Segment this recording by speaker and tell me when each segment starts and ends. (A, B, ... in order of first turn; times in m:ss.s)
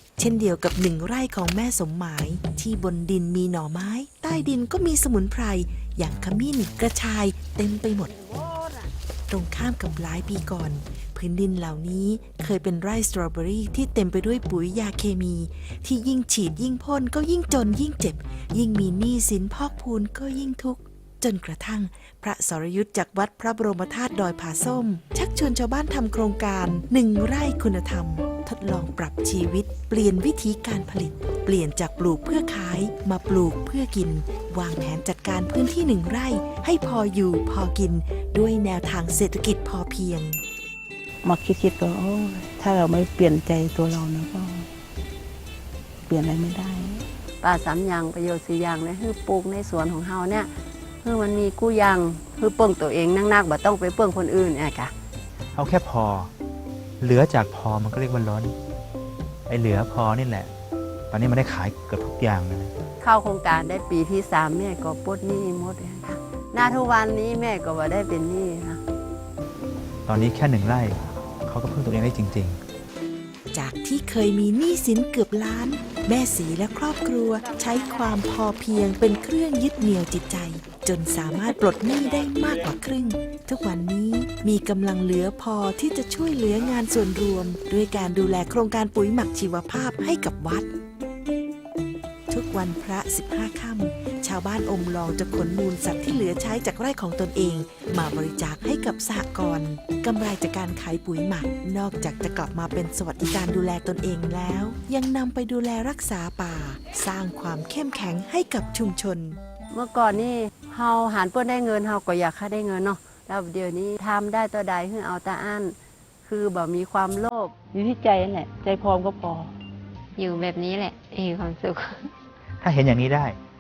0:00.2-0:08.1 A
0:08.3-0:08.8 B
0:09.3-0:40.4 A
0:41.2-0:44.7 C
0:46.1-0:47.0 C
0:47.4-0:50.5 B
0:51.0-0:54.9 B
0:55.6-0:56.3 D
0:57.0-0:58.6 D
0:59.5-1:00.5 D
1:01.1-1:02.7 D
1:03.0-1:08.8 B
1:10.1-1:12.6 D
1:13.5-1:30.7 A
1:32.3-1:49.4 A
1:49.7-1:57.6 B
1:57.7-1:59.5 C
2:00.2-2:02.1 E
2:02.6-2:03.4 D